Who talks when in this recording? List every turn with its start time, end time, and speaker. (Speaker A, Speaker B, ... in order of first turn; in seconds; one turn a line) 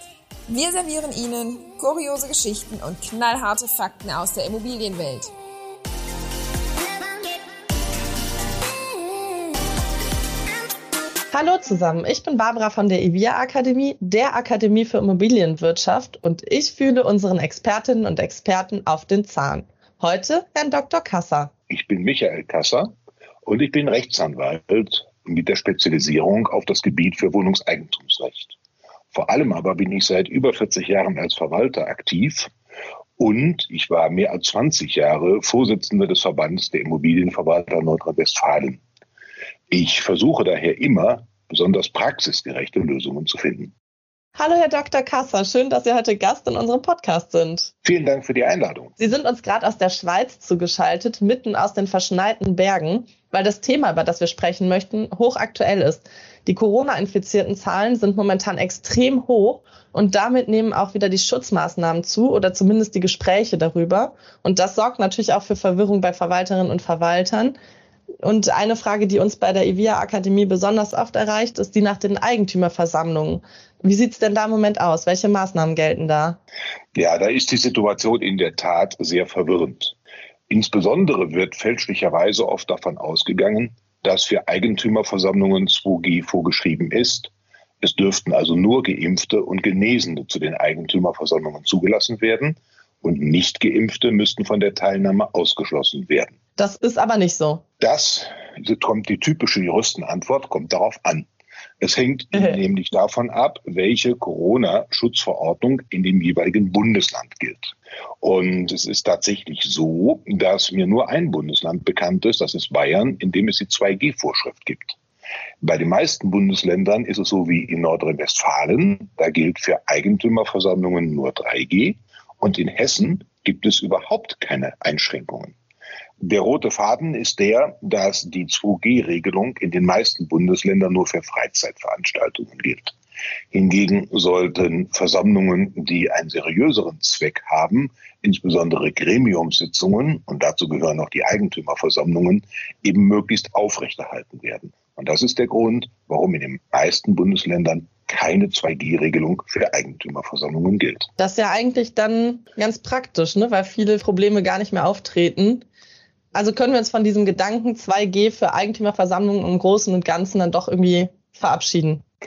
Speaker A: 0.5-5.3
Speaker B: 11.3-21.5
Speaker C: 21.7-22.9
Speaker C: 23.4-28.6
Speaker C: 29.1-32.5
Speaker C: 33.2-38.8
Speaker C: 39.7-43.7
Speaker B: 44.4-47.7
Speaker C: 47.9-48.9
Speaker B: 49.0-67.6
Speaker B: 68.2-76.4
Speaker C: 77.0-80.0
Speaker C: 80.5-96.4
Speaker B: 96.6-97.6
Speaker C: 97.8-101.3
Speaker C: 101.8-115.0
Speaker B: 102.3-102.6
Speaker C: 115.6-125.5
Speaker C: 126.2-133.0
Speaker C: 133.5-151.1
Speaker B: 151.2-155.7
Speaker B: 156.3-162.0